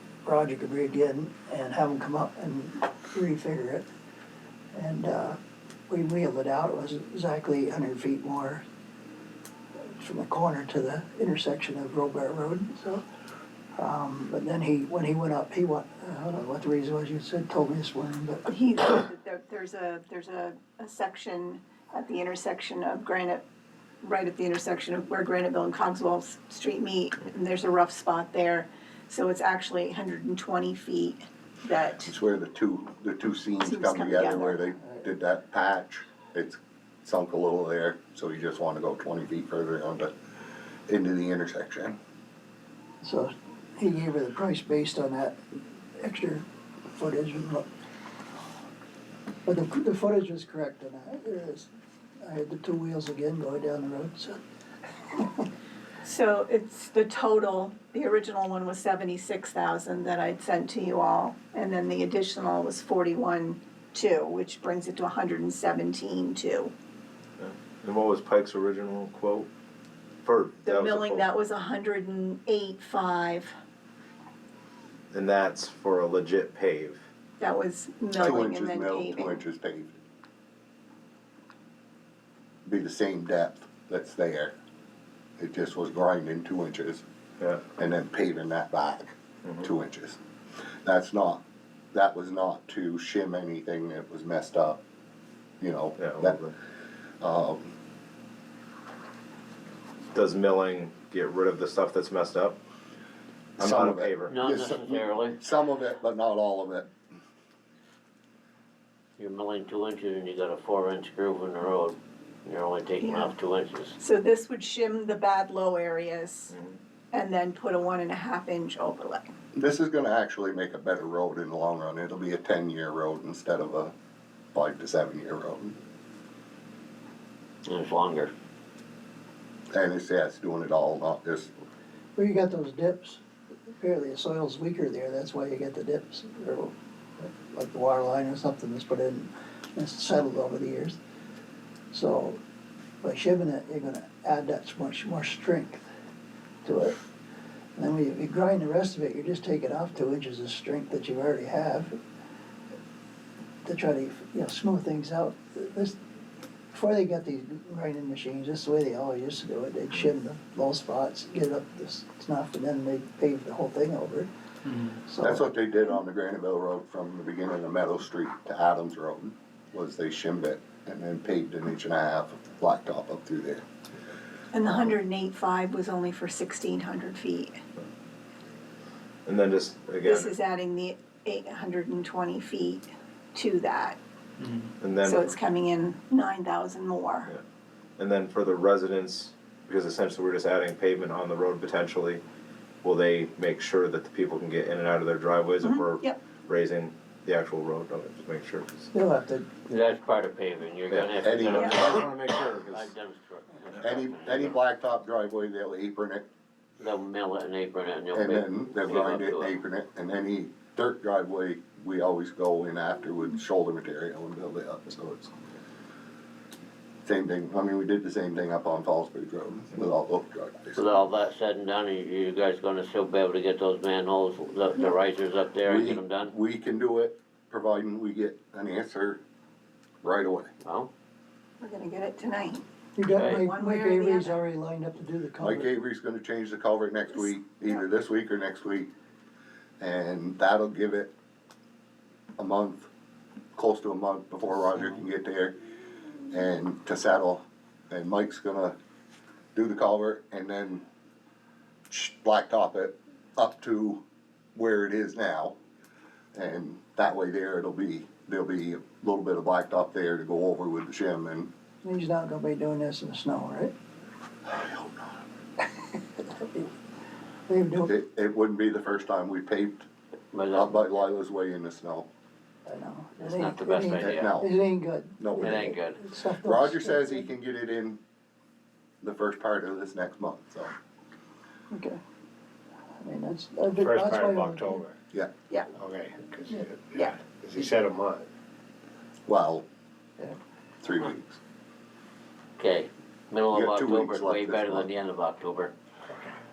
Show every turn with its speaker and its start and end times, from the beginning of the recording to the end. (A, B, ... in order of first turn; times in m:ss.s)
0:00.2-0:03.8 A
0:04.7-0:08.6 A
0:09.8-0:13.0 A
0:13.7-0:18.5 A
0:18.4-0:23.4 B
0:24.0-0:32.1 B
0:32.0-0:40.1 C
0:33.6-0:34.6 B
0:40.9-0:42.0 C
0:43.0-0:45.4 A
0:45.9-0:47.7 A
0:49.4-0:51.7 A
0:52.2-0:54.4 A
0:56.0-1:06.7 B
1:07.4-1:09.5 D
1:10.2-1:11.2 D
1:10.6-1:13.5 B
1:15.1-1:17.0 D
1:17.4-1:19.4 B
1:18.2-1:20.0 C
1:22.6-1:24.5 C
1:25.4-1:27.0 C
1:27.4-1:27.6 D
1:27.8-1:30.2 C
1:30.8-1:34.8 C
1:35.6-1:36.4 C
1:36.0-1:36.5 D
1:37.2-1:37.7 C
1:40.1-1:42.6 D
1:43.6-1:44.3 D
1:43.6-1:46.9 C
1:44.3-1:45.4 E
1:49.2-1:54.0 E
1:53.0-1:53.3 B
1:54.0-1:56.6 B
1:57.1-1:59.3 B
1:59.5-2:03.9 C
2:04.5-2:05.8 C
2:07.6-2:08.3 E
2:09.7-2:11.5 C
2:12.2-2:13.2 A
2:13.8-2:21.0 A
2:21.9-2:22.4 A
2:23.0-2:25.8 A
2:26.6-2:27.0 A
2:27.8-2:32.0 A
2:33.6-2:36.0 A
2:36.7-2:44.3 A
2:44.9-2:45.5 A
2:45.2-2:53.6 C
2:54.5-2:57.6 B
2:59.2-3:00.3 D
3:00.0-3:04.0 B
3:04.8-3:05.3 D
3:05.0-3:07.3 B
3:08.0-3:12.2 D
3:12.8-3:18.9 D
3:15.6-3:16.2 B
3:18.9-3:19.5 A
3:19.7-3:24.5 E
3:20.9-3:21.7 D
3:21.2-3:22.1 C
3:21.5-3:21.9 B
3:21.9-3:22.9 F
3:23.8-3:26.2 C
3:26.8-3:29.6 E
3:28.1-3:35.3 C
3:37.0-3:40.9 C
3:40.7-3:46.3 E
3:45.6-3:49.2 C
3:50.0-3:50.5 C
3:50.6-3:50.9 E
3:51.6-3:52.6 B
3:53.0-3:55.7 A
3:53.1-3:53.4 E
3:53.2-3:54.4 B
3:55.4-3:58.9 C
3:59.8-4:01.1 C
4:02.4-4:02.9 C
4:03.5-4:05.6 C
4:06.3-4:08.8 C
4:09.5-4:10.8 C
4:11.9-4:14.0 C
4:14.5-4:15.6 C
4:16.3-4:21.5 C
4:21.8-4:23.7 A
4:24.5-4:25.1 C
4:26.2-4:26.7 A
4:27.5-4:27.9 A
4:27.8-4:29.9 C
4:30.3-4:30.8 E
4:30.5-4:32.1 C
4:32.7-4:37.3 A
4:33.2-4:34.3 E
4:34.0-4:34.5 C
4:35.2-4:35.7 C
4:35.4-4:36.0 E
4:36.4-4:38.0 C
4:39.0-4:40.7 C
4:41.7-4:42.0 A
4:43.0-4:44.8 A
4:43.8-4:45.0 F
4:45.7-4:48.3 F
4:49.3-4:49.6 C
4:50.8-4:51.4 C
4:52.6-4:55.7 E
4:53.5-4:54.9 C